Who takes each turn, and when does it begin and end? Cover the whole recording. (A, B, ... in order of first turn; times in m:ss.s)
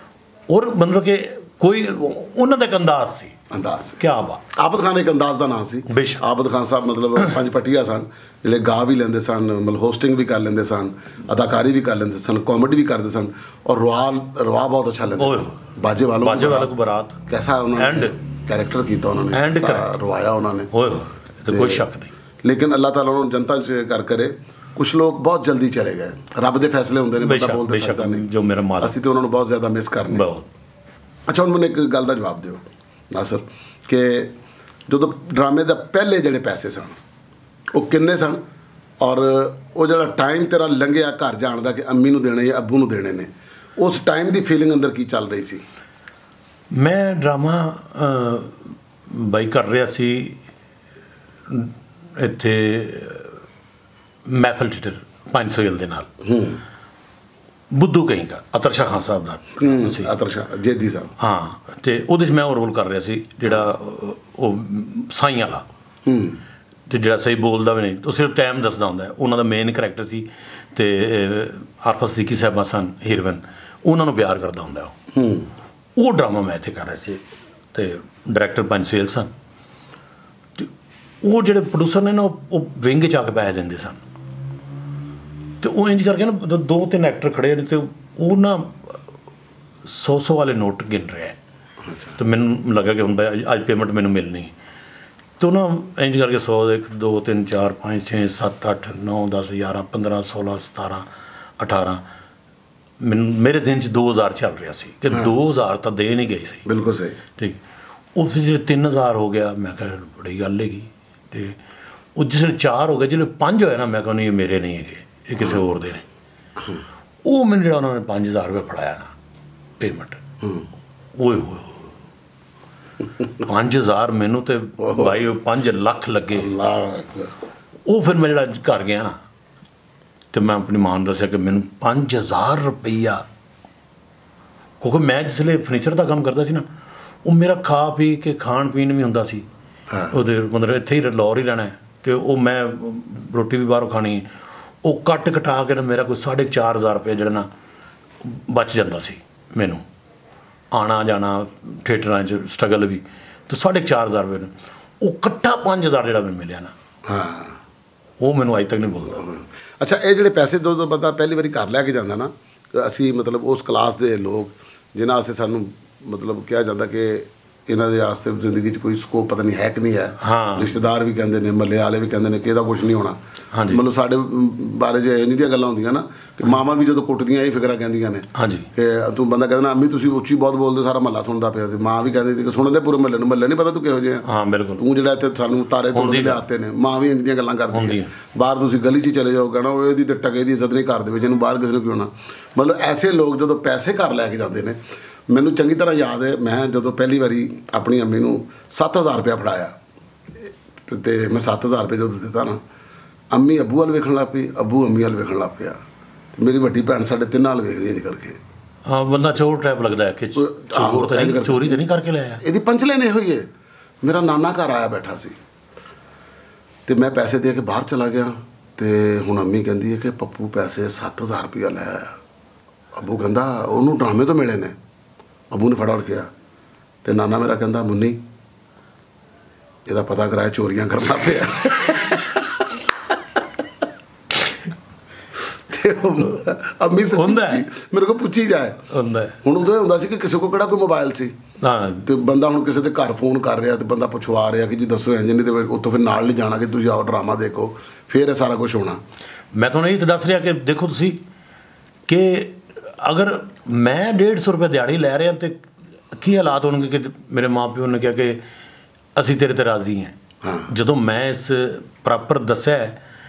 0:00.5-0:03.4 A
0:03.5-0:04.0 B
0:04.0-0:04.4 A
0:04.5-0:16.7 B
0:05.9-0:06.2 A
0:15.2-0:15.6 A
0:16.2-0:17.2 A
0:17.3-0:20.7 B
0:17.8-0:18.2 A
0:19.3-0:19.9 A
0:20.7-0:22.1 A
0:21.5-0:21.9 B
0:22.4-0:28.3 B
0:27.2-0:28.9 A
0:28.8-0:30.2 B
0:30.1-0:30.5 A
0:31.3-0:34.3 B
0:34.9-0:37.0 B
0:37.7-0:38.4 B
0:39.0-0:45.6 B
0:46.7-0:50.4 A
0:51.5-0:53.4 A
0:54.3-0:56.1 A
0:56.2-0:56.6 B
0:57.7-1:00.1 A
0:59.6-1:01.1 B
1:01.2-1:05.6 A
1:06.0-1:06.4 B
1:06.9-1:15.0 A
1:15.1-1:15.5 B
1:16.0-1:17.2 A
1:17.7-1:19.3 A
1:21.2-1:24.0 A
1:25.6-1:29.0 A
1:29.9-1:31.4 A
1:31.9-1:32.2 B
1:32.2-1:34.5 A
1:35.4-1:41.1 A
1:41.6-1:42.0 A
1:43.0-1:46.6 A
1:46.6-1:47.2 B
1:48.2-1:51.6 A
1:52.2-1:56.0 A
1:57.2-1:59.1 A
1:59.8-2:00.2 A
2:01.2-2:01.9 A
2:03.4-2:06.5 A
2:04.8-2:05.2 B
2:06.3-2:07.3 B
2:07.9-2:09.2 A
2:10.3-2:13.2 A
2:14.8-2:16.7 A
2:17.2-2:19.5 A
2:20.1-2:24.3 A
2:24.8-2:27.5 A
2:28.2-2:29.8 A
2:30.7-2:36.7 A
2:37.0-2:37.6 B
2:38.2-2:39.3 A
2:39.1-2:53.2 B
2:50.2-2:50.8 A
2:53.5-2:53.8 A
2:53.7-3:04.2 B
2:58.4-2:58.7 A
3:04.2-3:04.8 A
3:04.8-3:14.8 B
3:05.9-3:06.4 A
3:07.7-3:08.1 A
3:15.3-3:19.7 B
3:20.9-3:22.6 B
3:23.3-3:25.8 B
3:26.4-3:28.4 B
3:28.9-3:32.4 A
3:30.4-3:31.8 B
3:32.4-3:33.5 B
3:34.0-3:35.4 B
3:36.9-3:42.2 B
3:42.9-3:44.8 B
3:45.5-3:46.3 B
3:47.0-3:48.2 B
3:49.9-3:52.8 B
3:55.5-3:58.8 B
3:57.0-3:57.6 A
3:58.9-3:59.4 A
3:59.4-4:01.4 B
4:01.6-4:02.1 A
4:02.0-4:09.0 B
4:09.5-4:11.2 A
4:12.1-4:18.4 A
4:19.2-4:20.2 A
4:20.4-4:20.7 B
4:20.7-4:23.0 A